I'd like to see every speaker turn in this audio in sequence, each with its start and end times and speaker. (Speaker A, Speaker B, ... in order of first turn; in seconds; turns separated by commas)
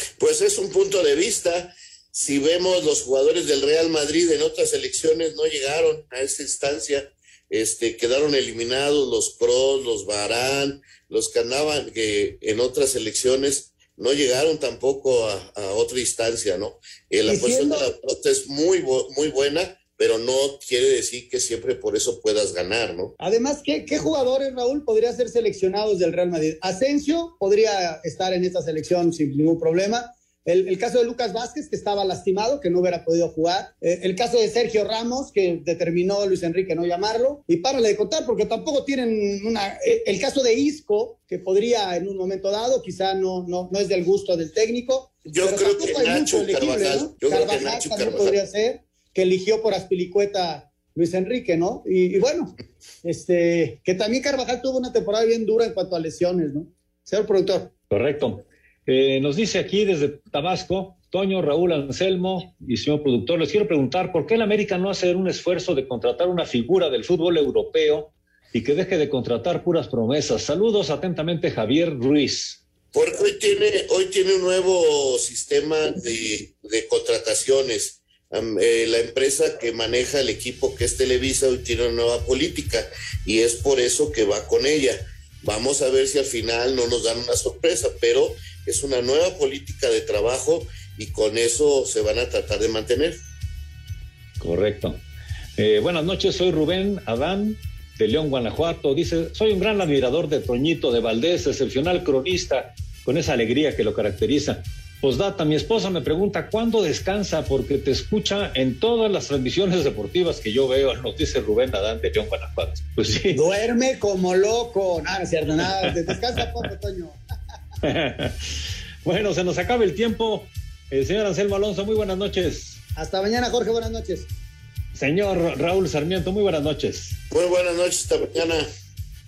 Speaker A: 0.2-23.1, Speaker B: 17.3-17.9, Speaker B: 23.2-52.5, Speaker A: 45.3-48.4, Speaker B: 53.0-57.7, Speaker C: 57.9-72.6, Speaker A: 72.9-93.2, Speaker C: 94.4-95.0, Speaker C: 95.6-113.4, Speaker B: 113.3-117.2, Speaker C: 117.8-122.8, Speaker B: 123.0-124.3, Speaker C: 125.0-127.2, Speaker A: 127.3-128.7